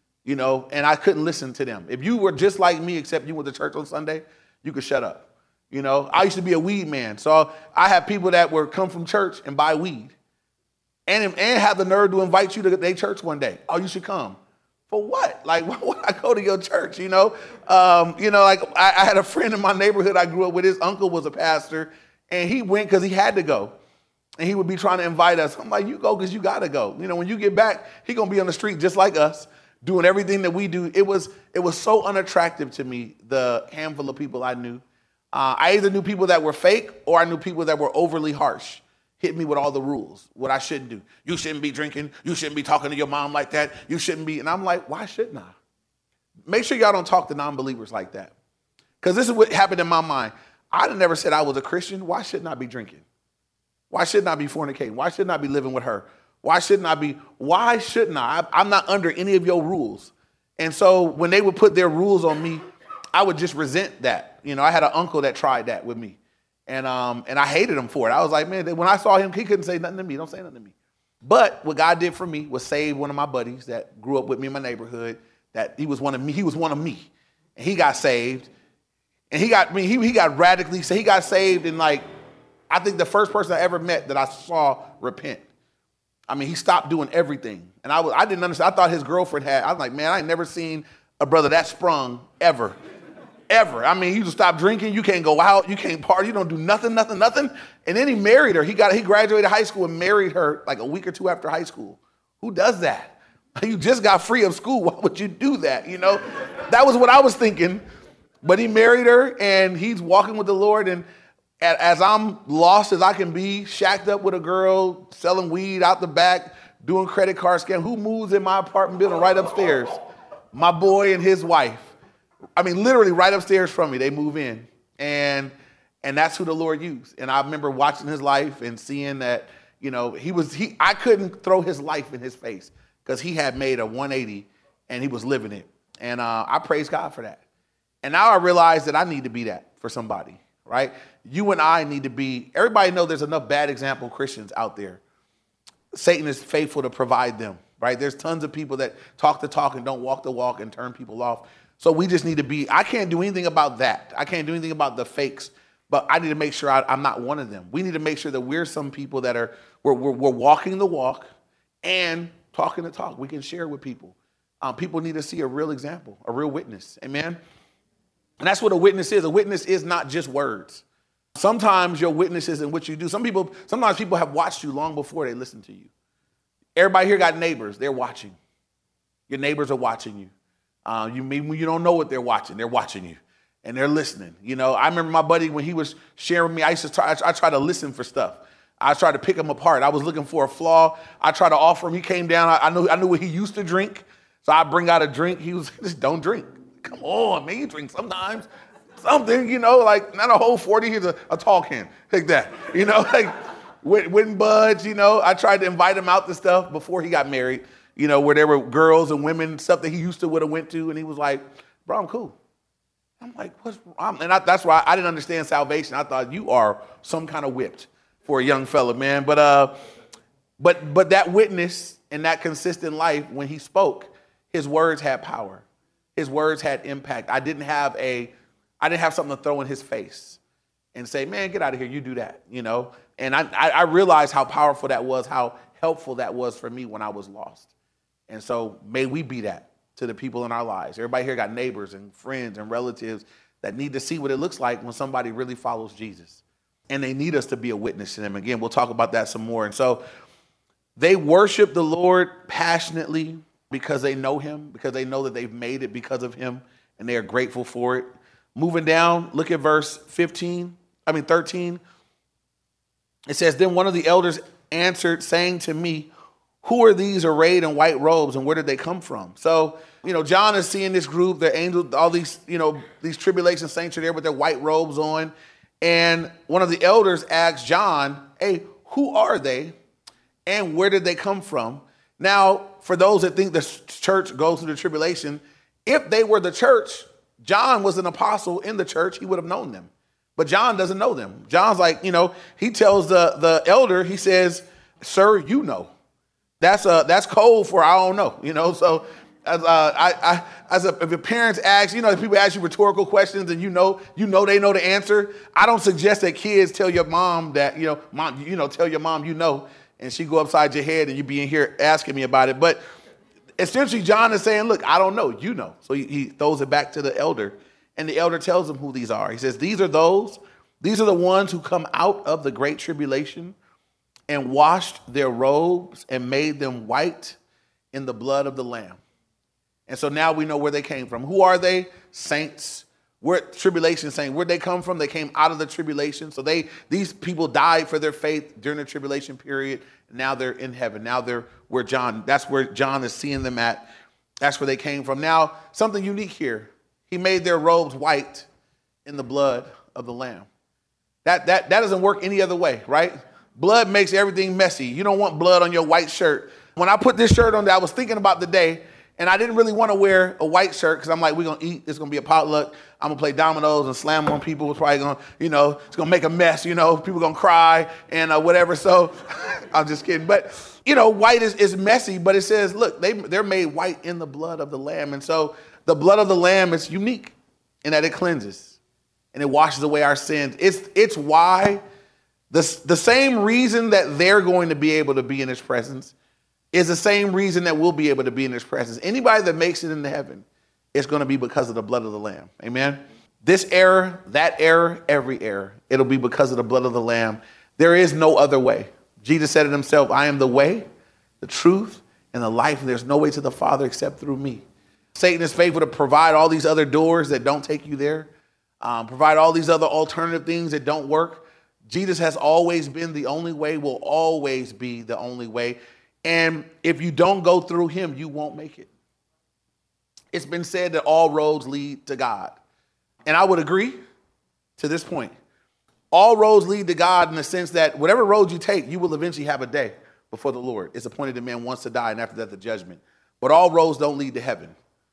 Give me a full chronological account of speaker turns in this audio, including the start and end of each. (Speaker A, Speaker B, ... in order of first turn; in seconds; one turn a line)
Speaker A: 0.2-10.1
Speaker A: 11.1-14.4
Speaker A: 14.9-23.7
Speaker A: 24.4-34.8
Speaker A: 35.3-45.5
Speaker A: 46.5-48.3
Speaker A: 49.0-53.0
Speaker A: 53.9-62.6
Speaker A: 63.1-78.5
Speaker A: 79.3-82.1
Speaker A: 82.7-85.4
Speaker A: 86.3-92.8
Speaker A: 93.5-107.8
Speaker A: 108.4-111.0
Speaker A: 111.6-119.9
Speaker A: 120.5-121.9
Speaker A: 122.6-137.4
Speaker A: 138.0-145.0
Speaker A: 145.9-161.3
Speaker A: 161.8-167.4
Speaker A: 168.4-170.8
Speaker A: 171.4-175.9
Speaker A: 176.8-178.4
Speaker A: 179.3-180.3
Speaker A: 180.9-198.5
Speaker A: 199.0-212.4
Speaker A: 213.2-219.8
Speaker A: 220.6-225.6
Speaker A: 226.2-230.4
Speaker A: 230.9-237.7
Speaker A: 238.3-250.0
Speaker A: 251.0-261.8
Speaker A: 263.3-266.1
Speaker A: 266.6-279.7
Speaker A: 280.5-295.9
Speaker A: 296.6-312.8
Speaker A: 313.6-323.6
Speaker A: 324.3-327.4
Speaker A: 327.9-329.0
Speaker A: 329.9-343.9
Speaker A: 344.4-348.5
Speaker A: 349.0-350.5
Speaker A: 351.2-378.8
Speaker A: 379.3-381.8
Speaker A: 382.5-386.1
Speaker A: 386.7-400.9
Speaker A: 401.4-404.6
Speaker A: 405.1-408.3
Speaker A: 408.8-418.9
Speaker A: 420.3-422.6
Speaker A: 423.3-424.0
Speaker A: 424.8-425.3
Speaker A: 426.1-434.8